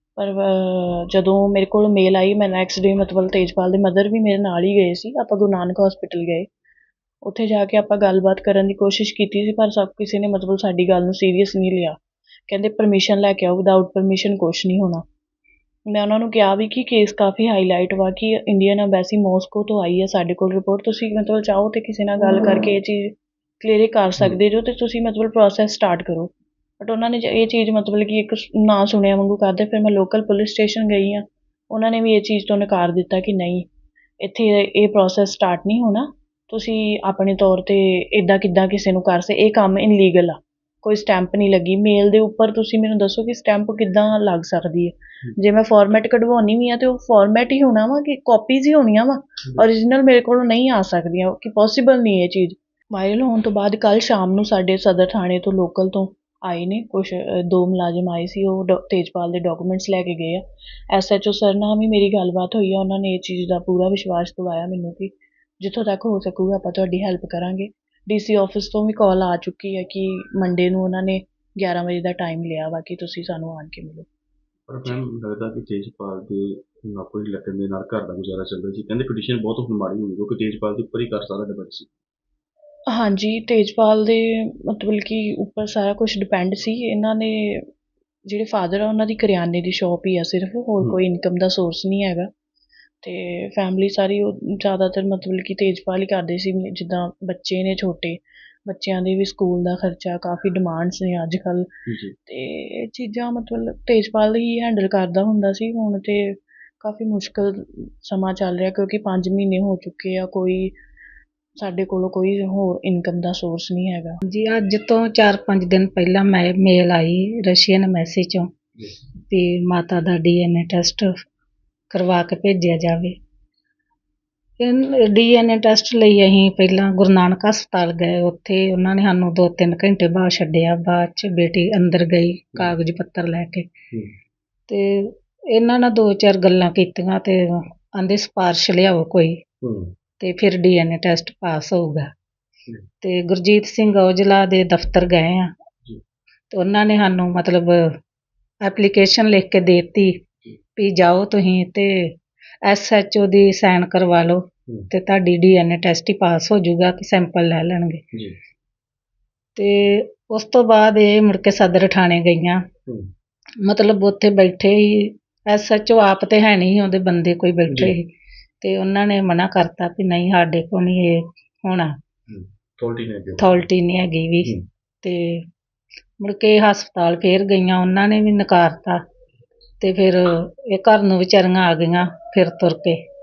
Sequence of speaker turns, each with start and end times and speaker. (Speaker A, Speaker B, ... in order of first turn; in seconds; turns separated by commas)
Speaker A: 0.2-6.5, Speaker A: 7.2-15.0, Speaker A: 15.9-33.7, Speaker A: 34.2-74.1, Speaker B: 74.7-81.9, Speaker A: 82.9-87.7, Speaker A: 88.2-92.3, Speaker A: 93.0-101.7, Speaker B: 101.9-102.1, Speaker A: 102.2-110.7, Speaker A: 111.6-114.2, Speaker C: 114.3-118.5, Speaker C: 119.3-121.1, Speaker C: 121.9-123.2, Speaker C: 124.6-133.7, Speaker C: 134.7-139.4, Speaker B: 139.6-139.9, Speaker C: 140.2-142.1, Speaker C: 143.0-145.5, Speaker C: 146.5-147.9, Speaker C: 148.6-150.2, Speaker C: 150.8-152.1, Speaker C: 152.6-158.0, Speaker C: 159.6-162.6, Speaker C: 163.6-168.1, Speaker B: 167.7-167.9, Speaker C: 168.6-171.9, Speaker B: 172.3-173.6, Speaker C: 173.4-175.4, Speaker C: 176.2-179.0, Speaker C: 179.8-183.0